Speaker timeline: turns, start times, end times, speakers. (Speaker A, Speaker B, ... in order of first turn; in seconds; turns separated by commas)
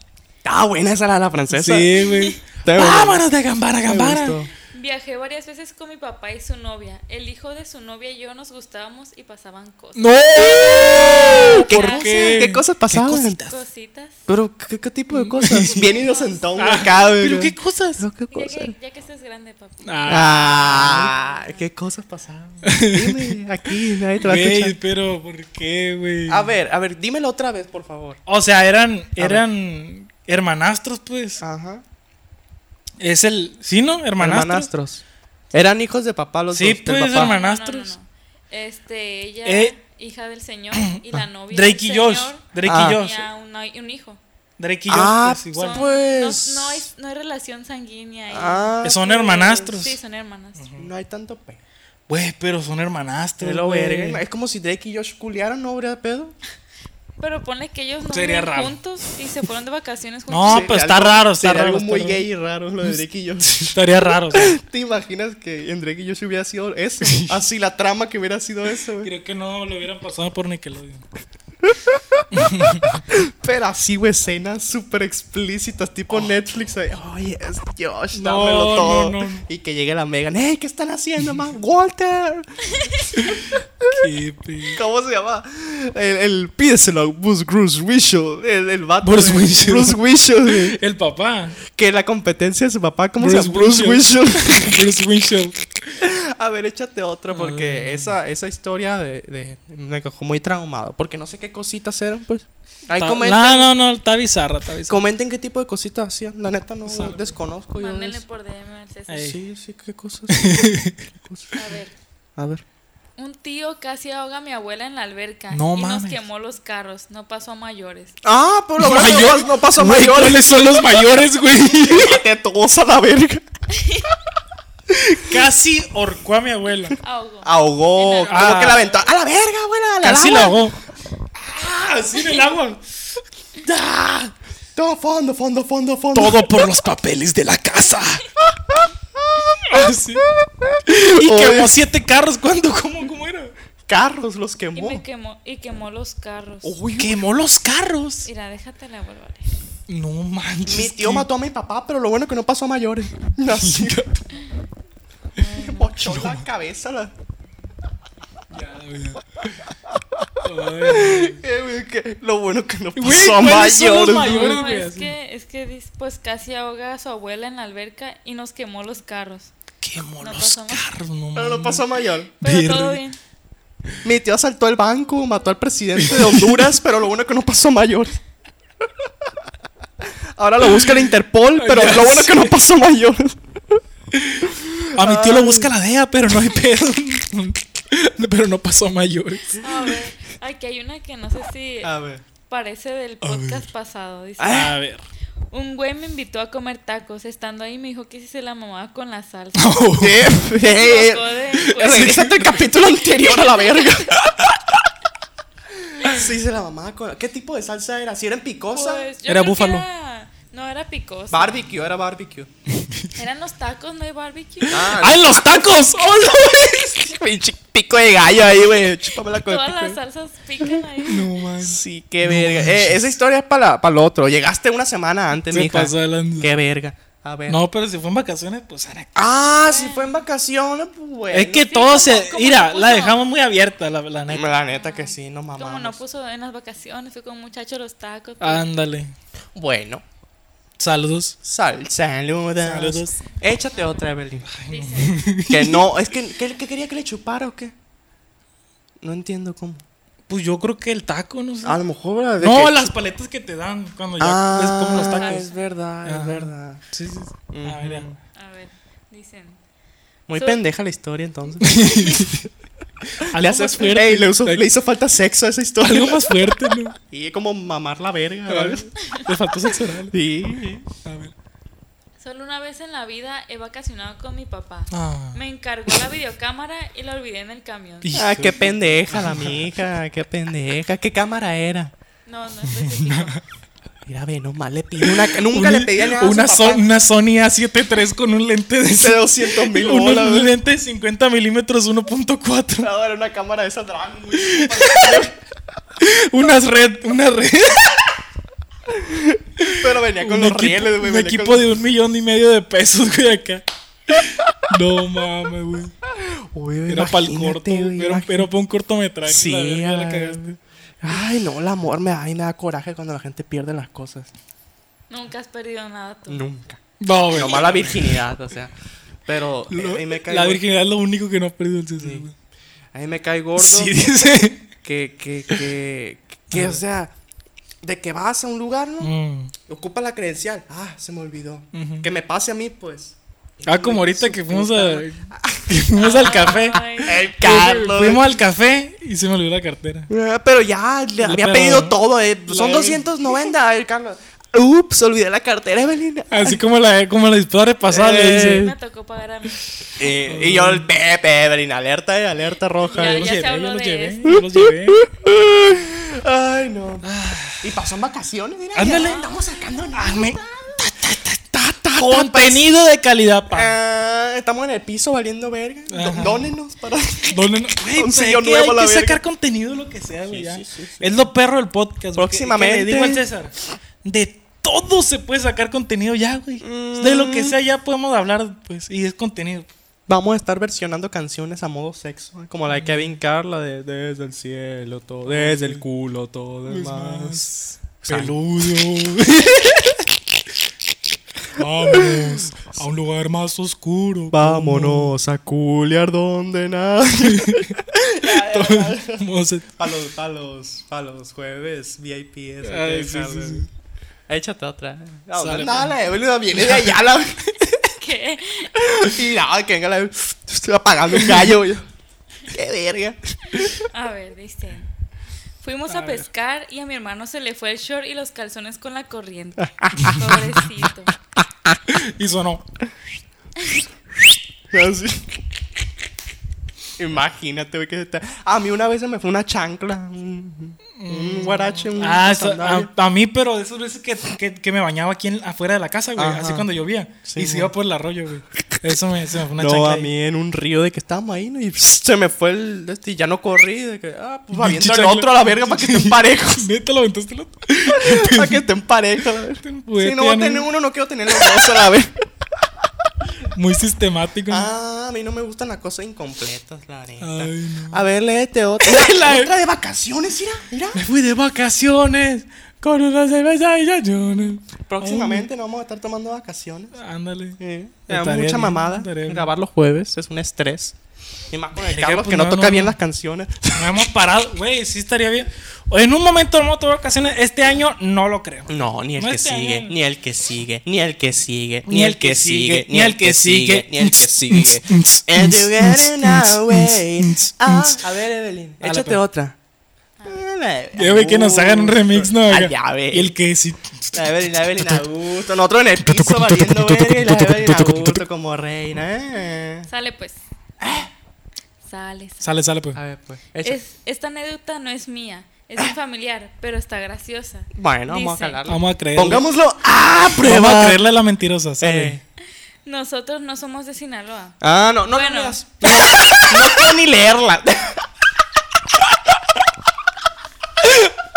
Speaker A: 0.5-1.9, Speaker B: 1.5-4.4, Speaker A: 2.6-3.2, Speaker A: 3.9-4.5, Speaker C: 4.7-12.5, Speaker B: 9.9-13.6, Speaker A: 10.9-13.4, Speaker C: 13.4-14.2, Speaker A: 14.3-18.7, Speaker B: 15.2-15.9, Speaker C: 15.7-16.5, Speaker B: 16.6-18.0, Speaker C: 18.3-21.6, Speaker B: 19.8-21.1, Speaker A: 20.1-24.8, Speaker B: 22.6-23.4, Speaker B: 24.2-26.5, Speaker A: 26.3-28.2, Speaker B: 28.3-31.4, Speaker A: 29.2-29.4, Speaker A: 31.4-31.8, Speaker B: 33.0-34.7, Speaker A: 34.2-37.3, Speaker B: 36.5-37.9, Speaker C: 37.1-44.2, Speaker B: 39.5-39.7, Speaker B: 40.8-41.0, Speaker B: 41.5-43.3, Speaker A: 42.6-43.0, Speaker B: 44.6-45.9, Speaker A: 44.9-46.9, Speaker C: 45.5-48.7, Speaker A: 48.3-49.7, Speaker B: 48.8-50.0, Speaker C: 49.6-50.7, Speaker B: 50.6-50.9, Speaker A: 50.8-51.6, Speaker B: 52.1-54.2, Speaker A: 53.4-56.4, Speaker C: 57.2-60.7, Speaker B: 58.1-58.8, Speaker B: 60.3-62.3, Speaker A: 60.5-63.7, Speaker B: 62.8-64.6, Speaker A: 64.3-69.1, Speaker B: 67.0-67.4, Speaker B: 69.0-71.0, Speaker A: 71.7-72.2, Speaker B: 72.3-73.0, Speaker A: 73.1-84.0, Speaker B: 78.1-79.4, Speaker B: 83.2-84.8, Speaker A: 84.7-90.8, Speaker B: 89.0-91.6, Speaker A: 91.7-94.8, Speaker B: 93.2-95.6, Speaker A: 96.0-103.7, Speaker B: 97.3-98.2, Speaker B: 103.0-105.0, Speaker A: 104.9-108.2, Speaker B: 106.9-107.3, Speaker C: 107.8-109.3, Speaker B: 109.1-109.4, Speaker A: 109.2-111.6, Speaker B: 110.3-111.0, Speaker C: 111.5-111.9, Speaker A: 112.4-112.6, Speaker C: 113.2-118.2, Speaker B: 115.5-116.2, Speaker A: 118.2-120.6, Speaker B: 118.8-122.2, Speaker A: 121.8-123.4, Speaker C: 123.7-124.1, Speaker B: 125.1-127.0, Speaker C: 127.0-128.8, Speaker A: 127.4-130.6, Speaker B: 128.3-128.9, Speaker B: 130.0-130.8, Speaker B: 131.5-132.8, Speaker A: 133.7-136.4, Speaker B: 136.1-138.3, Speaker A: 138.7-139.8, Speaker B: 139.7-140.3, Speaker A: 140.6-141.7, Speaker B: 140.9-143.5, Speaker A: 143.9-145.0, Speaker C: 144.8-146.8, Speaker A: 146.6-147.2, Speaker B: 147.0-148.3, Speaker C: 148.2-149.5, Speaker B: 149.9-151.3, Speaker A: 150.7-154.0, Speaker B: 153.5-154.3, Speaker C: 155.4-155.9, Speaker A: 155.5-157.1, Speaker B: 156.0-156.4, Speaker B: 158.5-159.5, Speaker B: 160.4-161.4, Speaker A: 160.8-164.6, Speaker B: 162.9-165.2, Speaker C: 164.1-169.5, Speaker B: 169.8-171.9, Speaker C: 170.2-170.8, Speaker A: 171.3-172.3, Speaker C: 172.4-173.2, Speaker B: 172.4-173.0, Speaker A: 174.0-178.2, Speaker B: 176.0-176.7, Speaker A: 180.4-183.8, Speaker B: 180.6-182.5, Speaker B: 184.1-190.0, Speaker A: 184.6-185.7, Speaker C: 189.6-191.9, Speaker A: 191.8-192.2, Speaker C: 192.5-194.7, Speaker B: 193.2-193.7, Speaker A: 194.4-194.7, Speaker B: 194.5-195.0, Speaker C: 195.5-199.9, Speaker B: 199.6-200.4, Speaker A: 200.0-204.2, Speaker C: 200.5-204.0, Speaker B: 201.5-202.6, Speaker B: 204.3-204.6, Speaker A: 205.8-209.1, Speaker C: 208.7-211.7, Speaker B: 209.3-209.9, Speaker A: 211.3-212.5, Speaker B: 212.7-213.1, Speaker C: 213.2-214.9, Speaker A: 214.7-215.7, Speaker B: 214.7-217.0, Speaker A: 216.9-220.0, Speaker C: 219.3-221.3, Speaker B: 221.1-223.1, Speaker A: 221.6-227.6, Speaker B: 225.5-226.5, Speaker B: 227.5-229.3, Speaker A: 229.2-231.7, Speaker C: 229.6-230.2, Speaker B: 231.3-234.6, Speaker C: 231.6-233.2, Speaker A: 234.3-236.0, Speaker C: 234.7-238.7, Speaker B: 238.4-239.1, Speaker A: 239.6-240.0, Speaker B: 240.8-241.4, Speaker A: 241.4-244.5, Speaker B: 242.6-243.2, Speaker C: 243.7-244.0, Speaker B: 244.5-245.9, Speaker C: 244.7-245.4, Speaker A: 245.5-247.7, Speaker A: 249.0-249.8, Speaker B: 250.3-251.8, Speaker A: 251.7-252.9, Speaker B: 252.4-255.5, Speaker A: 254.2-256.8, Speaker C: 254.9-255.7, Speaker B: 256.1-258.1, Speaker A: 257.5-258.1, Speaker C: 258.4-259.6, Speaker A: 260.3-262.4, Speaker C: 260.4-260.6, Speaker B: 261.6-262.4, Speaker B: 263.2-264.6, Speaker A: 263.2-266.3, Speaker B: 265.8-267.0, Speaker A: 267.1-268.9, Speaker B: 268.5-270.1, Speaker A: 270.1-270.9, Speaker B: 271.0-271.3, Speaker C: 272.2-278.1, Speaker B: 274.9-275.4, Speaker B: 278.0-279.7, Speaker A: 278.1-281.9, Speaker C: 282.3-283.4, Speaker B: 282.7-283.4, Speaker A: 284.1-286.9, Speaker B: 285.0-292.9, Speaker A: 288.9-290.5, Speaker A: 292.8-295.4, Speaker B: 294.4-295.3, Speaker B: 296.0-298.2, Speaker A: 298.9-301.7, Speaker B: 299.6-305.9, Speaker A: 306.2-308.5, Speaker B: 306.9-310.4, Speaker A: 309.3-314.3, Speaker C: 315.1-316.4, Speaker A: 316.3-316.8, Speaker B: 317.0-318.2, Speaker A: 317.3-318.7, Speaker A: 319.3-320.6, Speaker B: 319.7-322.3, Speaker A: 322.0-322.3, Speaker A: 322.9-324.1, Speaker B: 323.6-324.6, Speaker A: 324.8-327.1, Speaker B: 326.5-326.8, Speaker A: 327.8-329.1, Speaker B: 329.0-329.5, Speaker A: 329.7-336.4, Speaker B: 331.7-332.1, Speaker B: 333.7-340.1, Speaker C: 336.0-337.2, Speaker A: 337.0-338.2, Speaker A: 340.1-346.6, Speaker B: 341.2-343.1, Speaker B: 346.3-348.7, Speaker A: 347.9-348.7, Speaker C: 348.3-349.7, Speaker A: 350.0-353.3, Speaker B: 350.3-350.9, Speaker C: 352.9-354.4, Speaker B: 352.9-355.1, Speaker A: 354.3-357.1, Speaker B: 357.0-357.7, Speaker A: 357.6-360.8, Speaker B: 358.8-359.3, Speaker C: 358.8-359.6, Speaker B: 359.9-361.4, Speaker A: 361.5-362.7, Speaker B: 361.9-363.8, Speaker A: 363.5-369.2, Speaker B: 365.9-366.5, Speaker B: 367.3-379.7, Speaker A: 370.3-371.1, Speaker A: 372.2-373.2, Speaker A: 376.6-377.6, Speaker A: 380.1-388.4, Speaker B: 382.7-383.1, Speaker B: 385.3-385.8, Speaker B: 386.7-390.1, Speaker B: 391.6-395.1, Speaker A: 391.9-392.2, Speaker A: 394.3-403.7, Speaker B: 397.2-399.7, Speaker B: 402.6-403.7, Speaker A: 404.3-407.7, Speaker B: 405.4-406.0, Speaker B: 406.5-407.0, Speaker C: 408.0-408.7, Speaker A: 408.8-411.9, Speaker B: 411.1-411.6, Speaker A: 412.5-413.8, Speaker C: 413.8-414.9, Speaker C: 415.6-421.1, Speaker B: 415.9-416.3, Speaker A: 419.6-420.5, Speaker B: 421.9-422.7, Speaker A: 424.7-425.4, Speaker A: 427.0-432.9, Speaker B: 431.0-440.1, Speaker A: 436.2-436.7, Speaker A: 437.2-437.7, Speaker A: 439.6-446.7, Speaker B: 444.5-448.6, Speaker A: 447.9-452.1, Speaker B: 449.6-450.7, Speaker B: 451.3-451.8, Speaker B: 453.5-454.7, Speaker A: 454.5-461.0, Speaker B: 457.2-458.0, Speaker B: 458.8-459.5, Speaker B: 460.9-465.5, Speaker A: 464.9-467.0, Speaker B: 466.9-469.5, Speaker A: 467.6-471.0, Speaker A: 471.5-473.9, Speaker B: 471.8-473.0, Speaker B: 473.8-479.9, Speaker A: 478.7-489.6, Speaker B: 481.9-488.0, Speaker B: 488.8-489.2, Speaker C: 490.2-490.4, Speaker A: 490.2-493.3, Speaker B: 490.9-495.0, Speaker A: 494.1-499.9, Speaker B: 496.1-498.2, Speaker C: 499.9-500.4, Speaker A: 500.8-501.1, Speaker C: 501.9-502.5, Speaker B: 502.4-503.0, Speaker A: 502.9-503.8, Speaker C: 503.6-508.6, Speaker A: 507.8-511.0, Speaker B: 508.7-509.4, Speaker B: 510.3-512.1, Speaker A: 511.8-512.2, Speaker C: 512.9-515.6, Speaker A: 514.6-518.0, Speaker B: 515.9-516.5